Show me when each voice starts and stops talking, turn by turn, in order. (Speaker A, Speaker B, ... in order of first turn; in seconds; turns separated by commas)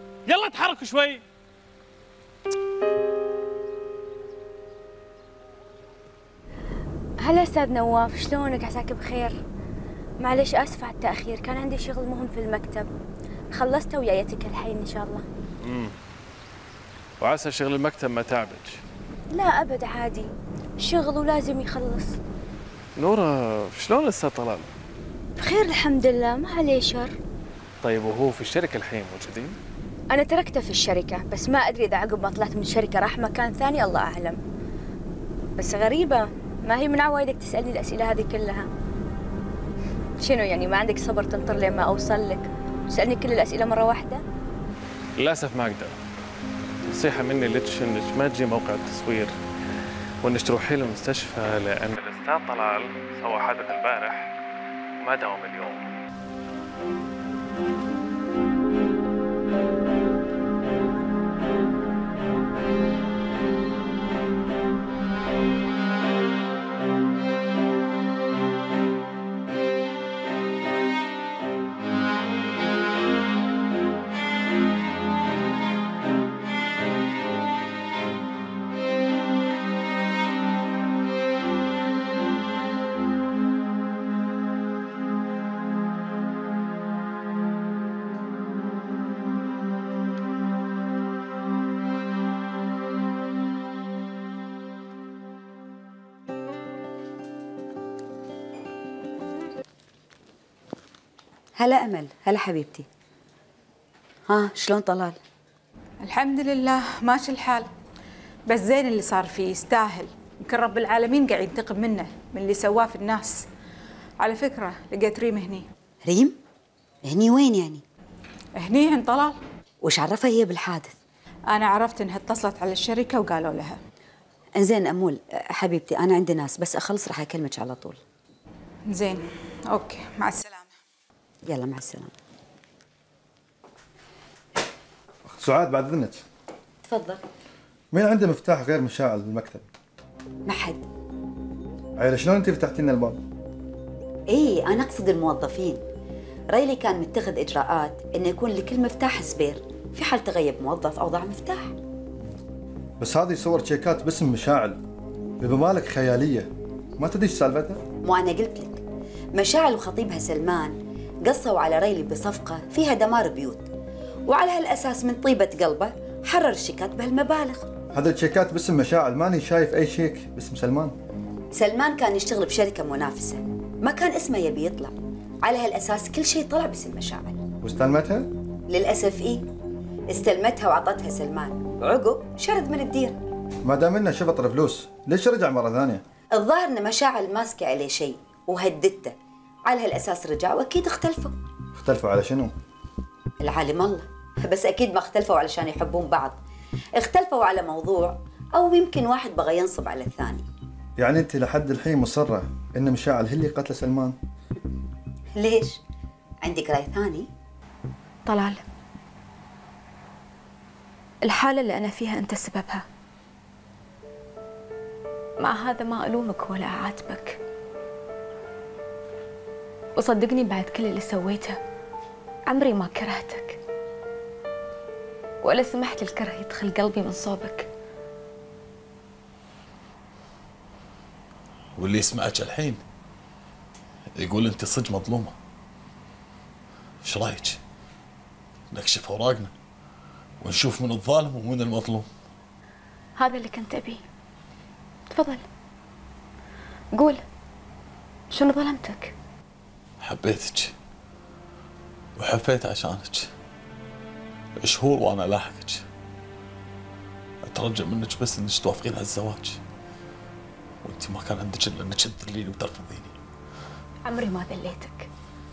Speaker A: 0.2-1.2, Speaker B: 7.2-9.3, Speaker B: 10.2-12.9, Speaker B: 13.5-15.2, Speaker A: 15.6-15.9, Speaker A: 17.2-18.8, Speaker B: 19.3-22.2, Speaker A: 23.0-24.7, Speaker B: 25.4-27.1, Speaker A: 27.8-29.6, Speaker B: 30.1-34.4, Speaker B: 35.6-38.7, Speaker B: 40.2-44.2, Speaker A: 45.2-46.0, Speaker A: 46.9-49.3, Speaker A: 50.2-54.3, Speaker A: 55.0-55.9, Speaker C: 101.6-102.8, Speaker C: 104.3-105.2, Speaker D: 106.0-107.7, Speaker D: 108.5-113.5, Speaker D: 114.2-115.7, Speaker C: 116.0-116.4, Speaker C: 117.0-117.8, Speaker D: 118.6-119.4, Speaker C: 119.8-120.9, Speaker D: 121.5-123.8, Speaker C: 124.6-128.0, Speaker D: 128.9-130.7, Speaker C: 131.5-132.1, Speaker E: 135.3-136.2, Speaker C: 136.8-137.2, Speaker E: 137.9-139.6, Speaker C: 140.4-140.8, Speaker E: 142.0-143.2, Speaker C: 144.3-145.8, Speaker C: 146.5-151.7, Speaker E: 153.0-154.8, Speaker E: 155.4-157.8, Speaker C: 158.0-158.8, Speaker C: 159.3-163.7, Speaker C: 164.2-167.7, Speaker E: 167.9-170.9, Speaker C: 171.5-177.4, Speaker E: 177.6-178.3, Speaker C: 178.7-179.5, Speaker C: 180.1-183.2, Speaker E: 183.6-186.0, Speaker C: 186.3-191.3, Speaker E: 191.7-192.5, Speaker C: 193.4-196.4, Speaker C: 197.0-200.4, Speaker E: 201.0-204.2, Speaker C: 205.3-205.8, Speaker C: 206.4-207.3, Speaker F: 208.2-208.6, Speaker F: 211.2-212.8, Speaker F: 215.4-217.4, Speaker F: 219.9-221.6, Speaker F: 222.5-223.6, Speaker F: 225.4-227.7, Speaker G: 231.8-232.8, Speaker G: 234.2-235.3, Speaker G: 237.0-237.6, Speaker G: 238.7-239.5, Speaker G: 240.4-242.1, Speaker F: 243.2-244.0, Speaker F: 245.1-245.4, Speaker F: 246.9-247.2, Speaker F: 248.3-249.1, Speaker G: 250.0-250.7, Speaker G: 252.2-253.3, Speaker G: 254.6-255.8, Speaker G: 257.4-259.6, Speaker G: 260.8-263.1, Speaker F: 264.0-265.1